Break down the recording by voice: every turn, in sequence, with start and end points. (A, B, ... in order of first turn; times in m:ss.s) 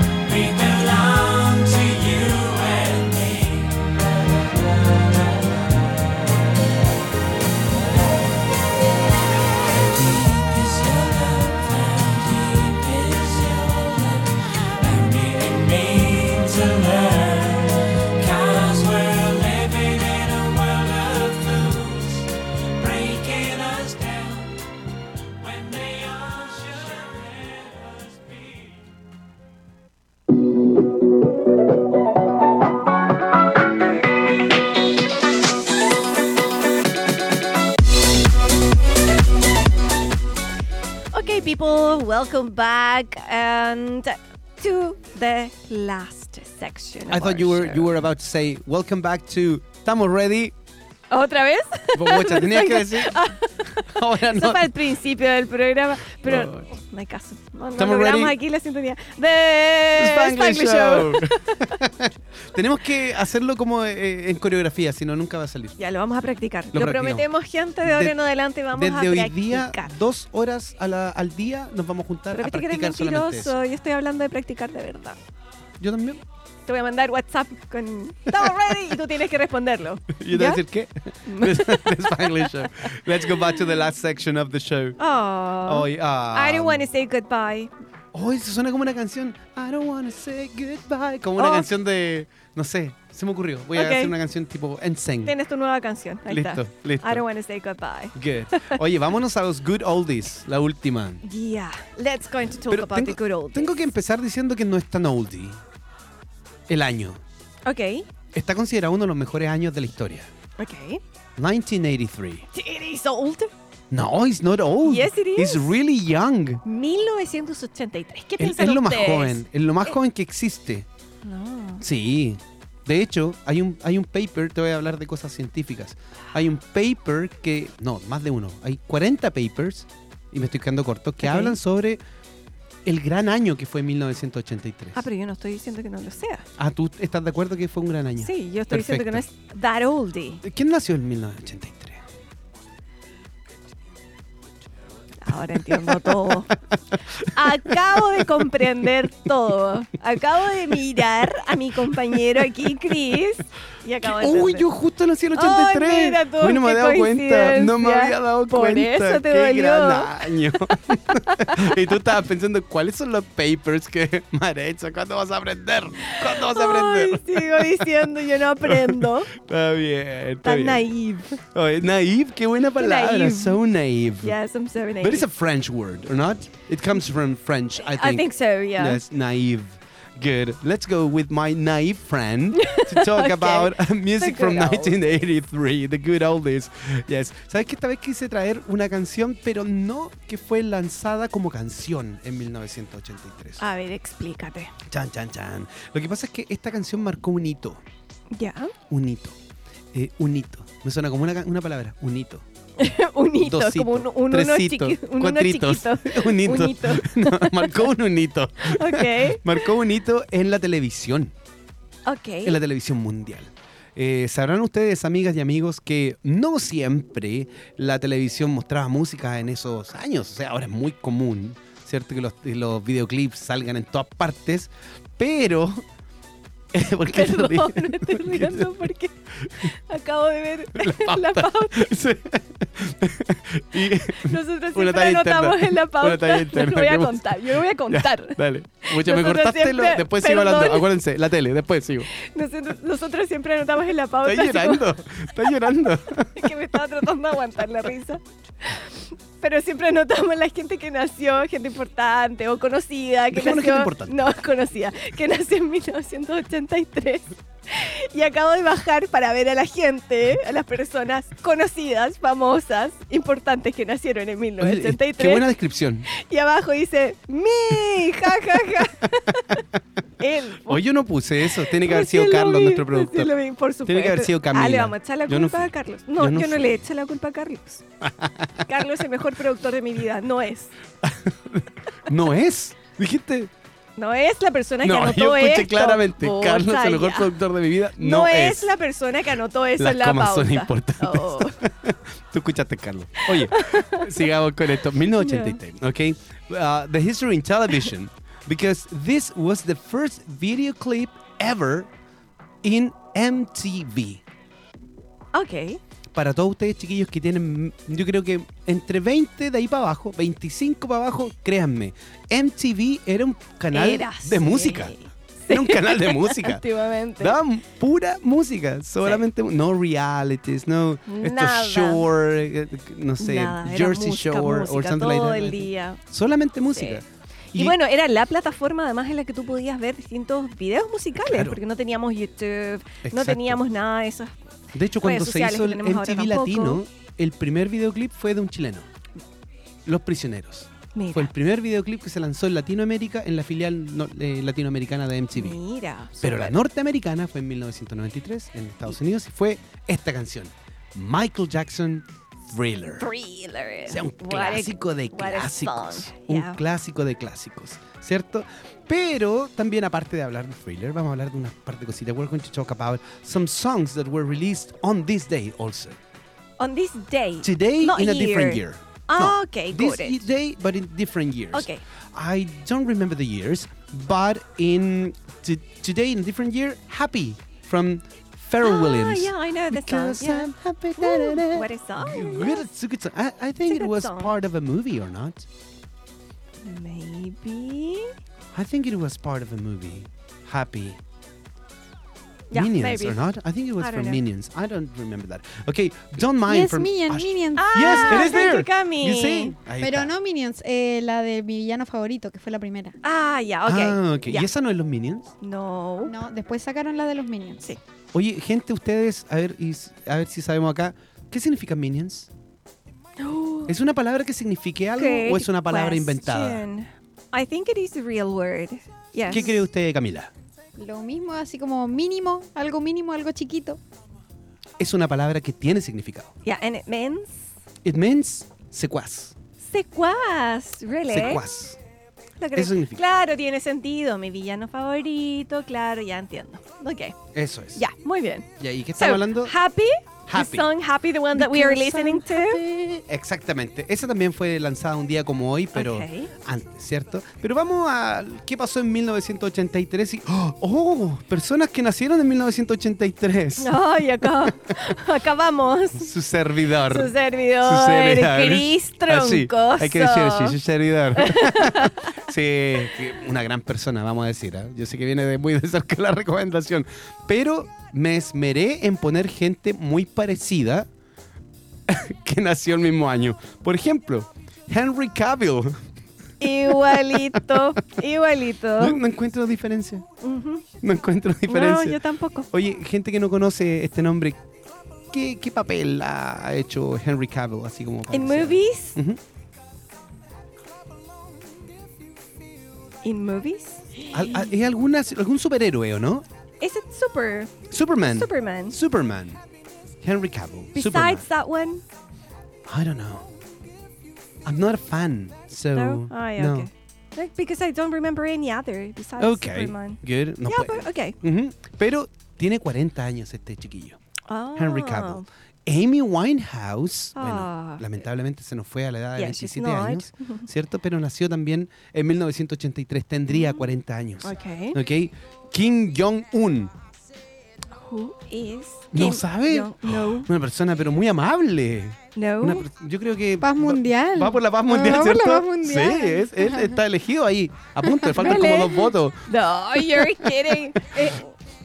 0:00.2-0:05.9 A
0:09.6-0:24.6 A
0:25.4-0:28.8 A
0:41.1-0:47.9 B
0:47.1-0:50.5 C
0:51.1-1:01.8 B
0:51.9-0:54.7 C
0:56.2-0:56.7 C
0:57.8-0:58.4 C
1:00.0-1:05.8 C
1:05.8-1:09.9 B
1:06.7-1:07.3 C
1:07.8-1:08.2 C
1:08.7-1:13.6 C
1:12.3-1:15.2 B
1:15.8-1:16.2 C
1:16.7-1:20.6 B
1:20.2-1:25.0 C
1:21.3-1:23.6 B
1:25.0-1:27.7 B
1:25.6-1:26.9 C
1:28.1-1:35.4 C
1:31.4-1:31.7 B
1:33.8-1:34.1 B
1:35.2-1:38.8 B
1:36.3-1:37.2 C
1:38.2-1:41.2 C
1:41.2-1:43.8 B
1:42.7-1:45.6 C
1:46.7-1:47.2 C
1:47.7-1:48.1 B
1:48.3-1:50.3 C
1:50.6-1:51.0 B
1:51.4-1:52.5 C
1:52.5-1:53.5 B
1:53.9-1:56.6 C
1:54.8-1:55.7 B
1:56.6-2:00.0 B
1:58.4-2:00.9 C
2:01.2-2:01.8 B
2:01.8-2:12.0 C
2:11.2-2:11.6 B
2:12.8-2:15.0 C
2:15.0-2:16.5 B
2:16.6-2:19.2 C
2:18.2-2:20.4 B
2:20.4-2:22.0 C
2:25.2-2:26.5 B
2:25.7-2:26.2 C
2:27.3-2:34.7 B
2:34.0-2:48.1 C
2:35.4-2:41.8 B
2:46.1-2:49.3 B
2:48.6-2:54.4 C
2:50.4-2:51.4 B
2:52.8-2:53.6 B
2:54.2-2:55.3 B
2:55.0-3:13.6 C
2:57.8-2:59.0 B
3:02.6-3:05.2 B
3:13.6-3:14.7 B
3:14.9-3:17.8 C
3:18.3-3:18.7 B
3:18.9-3:19.4 C
3:19.9-3:22.4 C
3:22.8-3:27.9 B
3:23.4-3:31.3 C
3:28.6-3:29.7 B
3:32.1-3:32.6 B
3:32.4-3:45.8 C
3:46.7-3:48.8 C
3:47.1-3:51.9 B
3:49.4-3:49.7 C
3:50.8-4:02.1 C
3:54.1-4:00.9 B
4:02.1-4:04.9 B
4:04.2-4:06.5 C
4:06.4-4:25.4 B
4:13.3-4:14.2 C
4:24.6-4:26.1 C
4:26.1-4:29.6 B
4:30.2-4:30.8 B
4:30.7-4:33.3 C
4:31.5-4:37.8 B
4:33.9-4:36.8 C
4:38.0-4:38.7 C
4:38.7-4:40.7 B
4:41.0-4:43.5 C
4:44.0-4:47.3 B
4:44.8-4:48.7 C
4:48.0-4:51.6 B
4:49.8-5:01.9 C
4:53.2-4:54.3 B
4:55.2-4:55.6 B
5:02.6-5:04.2 C
5:05.3-5:05.8 B
5:06.1-5:14.9 C
5:13.7-5:17.4 B
5:15.5-5:16.6 C
5:17.2-5:27.8 C
5:21.1-5:22.1 B
5:23.2-5:26.0 B
5:26.7-5:27.0 B
5:27.6-5:34.4 B
5:31.2-5:31.6 C
5:33.0-5:33.6 C
5:34.7-5:38.9 C
5:35.0-5:36.8 B
5:39.9-5:45.6 C
5:41.0-5:41.3 B
5:45.4-5:46.6 B
5:46.2-5:53.1 C
5:53.0-5:56.6 B
5:53.9-6:06.0 C
6:06.6-6:10.2 B
6:07.4-6:25.5 C
6:11.5-6:11.8 B
6:18.6-6:22.7 B
6:23.7-6:24.3 B
6:26.6-6:28.1 B
6:28.5-6:31.0 C
6:32.5-6:33.2 B
6:32.5-6:40.1 C
6:33.8-6:34.2 B
6:36.5-6:38.4 D
6:37.6-6:39.6 B
6:39.8-6:43.0 D
6:43.0-6:44.5 B
6:43.7-6:45.3 C
6:45.4-6:46.2 B
6:46.0-6:47.7 D
6:48.1-6:52.3 C
6:53.2-6:53.7 B
6:53.7-6:56.6 C
6:55.0-6:59.6 B
6:59.3-7:00.3 C
7:00.8-7:03.8 D
7:04.8-7:06.3 C
7:06.4-7:07.4 B
7:07.8-7:09.4 C
7:09.7-7:11.4 B
7:11.1-7:11.8 C
7:12.4-7:17.2 B
7:12.6-7:13.0 C
7:17.3-7:17.8 C
7:17.8-7:22.6 B
7:18.6-7:19.6 C
7:20.3-7:20.7 C
7:21.3-7:33.8 C
7:25.8-7:26.3 B
7:33.6-7:36.1 B
7:36.0-7:50.9 C
7:36.9-7:40.6 B
7:41.2-7:42.2 B
7:51.9-7:55.8 C
7:56.4-7:59.0 B
7:56.7-7:57.8 C
7:58.8-8:00.0 C
8:00.2-8:00.6 B
8:00.8-8:02.0 C
8:01.5-8:02.5 B
8:02.5-8:04.4 C
8:05.1-8:09.2 C
8:08.1-8:09.0 B
8:13.0-8:13.9 B
8:14.1-8:16.2 C
8:16.6-8:18.8 B
8:17.7-8:19.4 C
8:20.0-8:21.3 C
8:20.8-8:21.8 B
8:22.7-8:23.3 C
8:24.4-8:26.7 C
8:25.7-8:31.2 B
8:29.2-8:34.0 C
8:34.3-8:35.3 B
8:34.6-8:46.7 C
8:37.2-8:37.9 B
8:39.2-8:40.5 B
8:43.3-8:43.7 B
8:44.2-8:44.8 B
8:47.8-8:50.3 B
8:48.9-9:01.1 C
8:52.2-8:52.7 B
8:53.4-8:56.8 D
8:57.8-8:58.7 D
8:58.2-9:01.2 B